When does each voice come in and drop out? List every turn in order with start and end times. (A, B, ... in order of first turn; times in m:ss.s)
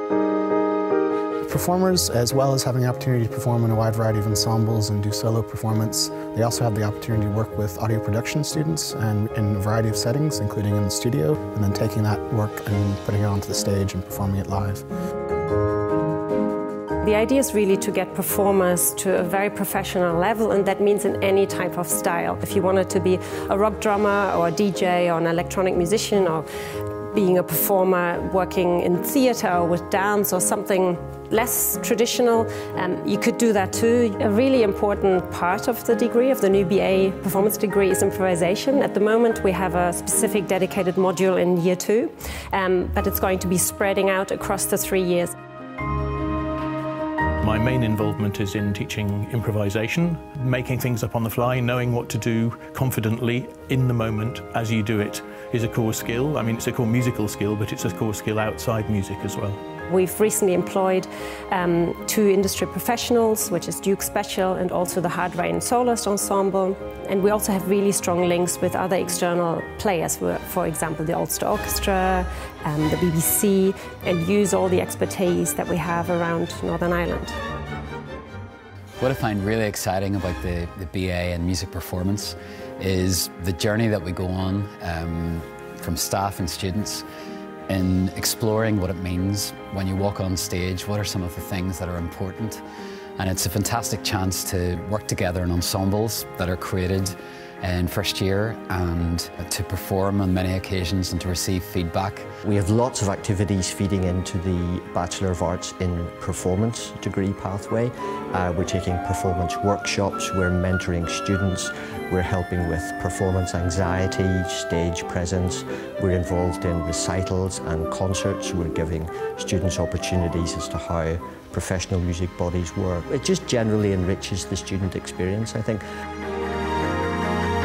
0:01.4-0:14.8 A
0:17.0-0:26.5 B
0:27.1-0:45.3 B
0:47.4-0:59.6 C
0:59.9-1:17.4 B
1:19.0-1:27.0 D
1:27.7-1:32.6 D
1:33.2-1:42.2 D
1:42.4-2:05.8 E